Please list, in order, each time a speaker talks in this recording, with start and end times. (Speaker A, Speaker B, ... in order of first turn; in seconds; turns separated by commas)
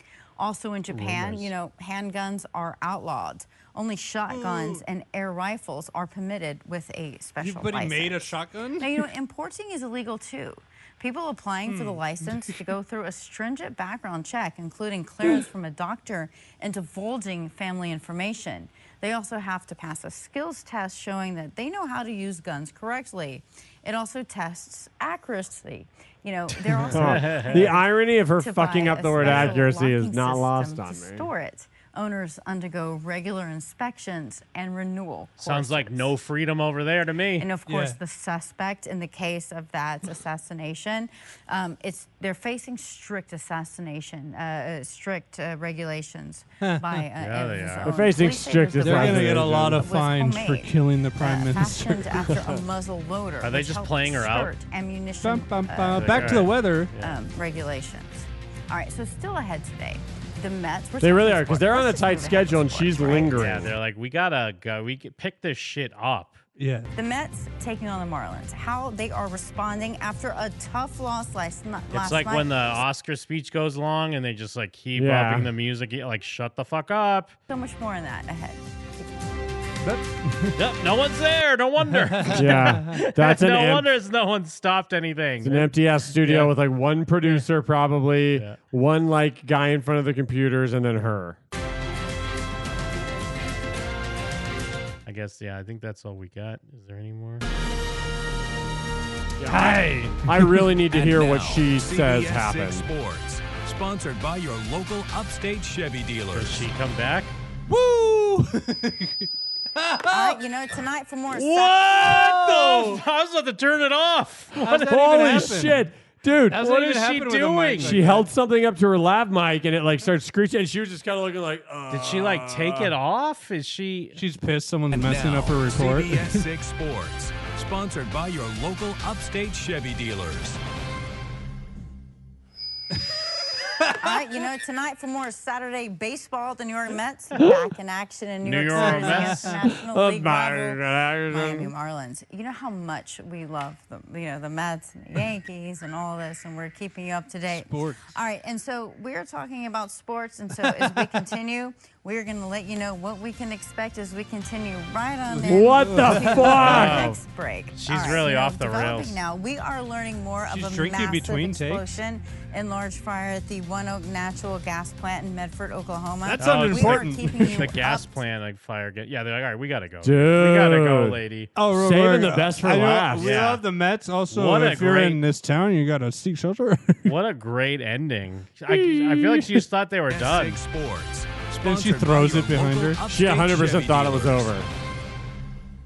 Speaker A: 0.4-27.6, Speaker B: 0.9-1.5, Speaker C: 4.3-4.8, Speaker C: 7.4-9.0, Speaker C: 11.7-12.5, Speaker C: 26.7-27.0, Speaker B: 26.9-31.3, Speaker D: 27.0-27.7, Speaker A: 28.4-36.0, Speaker D: 29.2-29.6, Speaker D: 35.4-37.5, Speaker A: 37.4-63.4, Speaker C: 37.7-38.0, Speaker C: 46.6-47.0, Speaker D: 47.2-47.9, Speaker B: 47.8-49.9, Speaker C: 48.8-52.0, Speaker B: 52.3-52.6, Speaker D: 53.4-54.5, Speaker C: 55.2-56.9, Speaker D: 55.9-57.1, Speaker B: 61.0-63.8, Speaker D: 63.3-66.4, Speaker C: 66.6-66.9, Speaker A: 67.0-72.5, Speaker D: 71.9-77.3, Speaker B: 75.0-75.5, Speaker A: 77.5-79.0, Speaker C: 79.8-80.6, Speaker D: 80.6-86.5, Speaker C: 82.2-82.9, Speaker B: 82.3-83.9, Speaker B: 85.4-91.4, Speaker D: 95.1-97.5, Speaker B: 99.4-102.8, Speaker C: 99.5-100.7, Speaker E: 100.9-106.7, Speaker D: 106.3-107.4, Speaker C: 107.7-109.3, Speaker C: 109.8-110.4, Speaker A: 110.1-111.8, Speaker D: 111.3-115.5, Speaker C: 112.0-113.0, Speaker C: 114.6-115.9, Speaker B: 114.8-117.0, Speaker C: 116.5-118.3, Speaker D: 116.6-118.0, Speaker B: 117.8-122.9, Speaker D: 121.9-124.2, Speaker C: 124.2-126.5, Speaker E: 124.9-130.6, Speaker A: 134.0-168.1, Speaker D: 138.4-139.6, Speaker C: 138.8-139.6, Speaker B: 139.8-141.7, Speaker C: 147.5-148.1, Speaker C: 155.3-156.9, Speaker B: 155.5-157.2, Speaker D: 156.5-157.2, Speaker D: 157.7-159.2, Speaker C: 160.5-161.9, Speaker C: 166.2-167.6, Speaker D: 166.4-171.5, Speaker B: 170.0-173.5, Speaker C: 171.6-177.1, Speaker D: 173.2-173.6, Speaker D: 174.3-175.2, Speaker D: 177.1-180.6, Speaker B: 178.7-179.6, Speaker E: 180.1-184.5, Speaker C: 181.6-183.0, Speaker B: 183.1-184.7